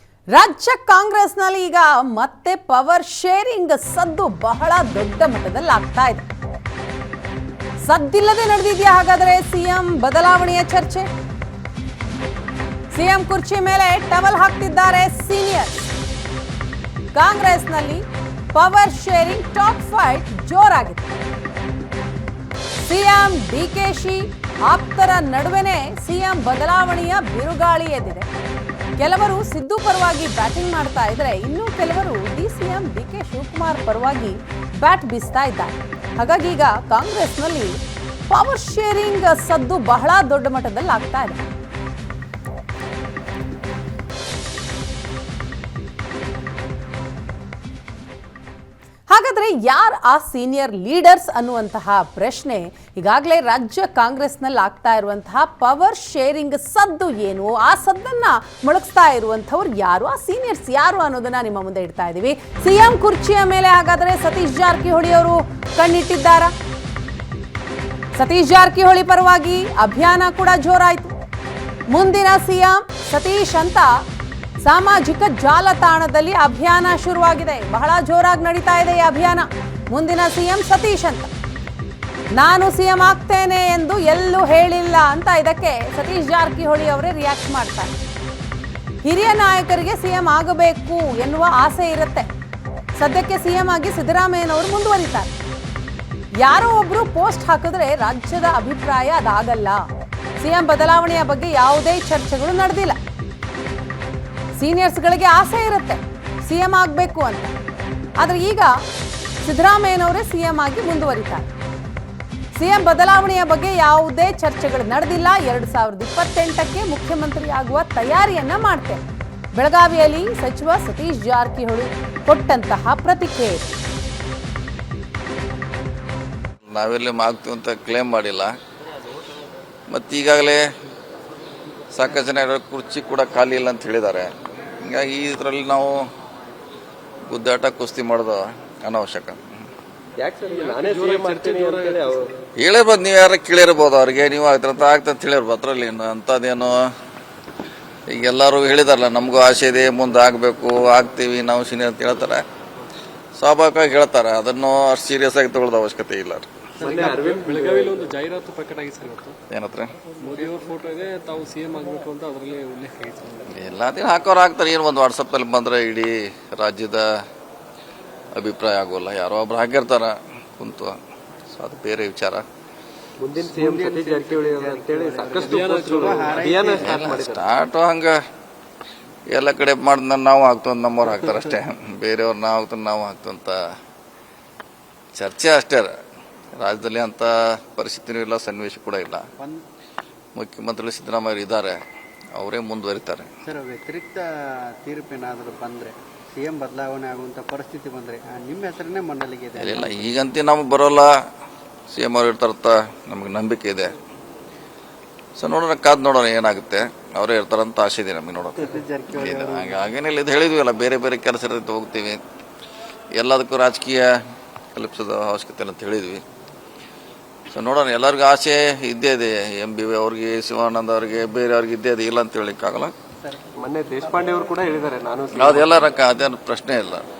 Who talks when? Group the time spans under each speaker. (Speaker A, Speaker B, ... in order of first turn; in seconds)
Speaker A: 0.3-6.2, 7.8-11.1, 12.9-15.9, 17.1-18.0, 18.5-21.1, 22.8-28.3, 29.0-37.8, 38.3-41.4, 49.1-66.5, 68.2-71.1, 71.9-73.9, 74.6-81.3, 82.3-87.9, 89.0-92.3, 93.0-95.3, 96.4-99.8, 100.4-103.0, 104.6-107.5, 108.2-108.8, 109.4-111.5, 112.5-119.0, 119.5-123.7
Speaker B: 126.7-128.5, 129.9-130.6, 131.9-136.1, 137.3-139.4, 142.6-146.8, 148.1-152.4, 153.4-156.5, 159.5-159.9, 163.5-167.1, 168.3-170.9, 171.5-172.4, 176.7-178.2, 179.3-183.6, 185.2-185.9, 186.5-189.2, 190.3-191.8, 192.3-193.3, 199.6-201.1, 201.9-203.9, 205.4-212.2, 213.1-214.1, 214.7-216.2, 217.5-222.9, 225.3-227.1
Speaker C: 140.2-142.3, 156.8-158.0, 173.2-177.5, 223.6-225.8
Speaker D: 140.5-142.1, 156.8-159.4, 160.2-163.5, 175.3-176.6
Speaker E: 173.4-177.0, 193.4-200.0, 208.6-209.8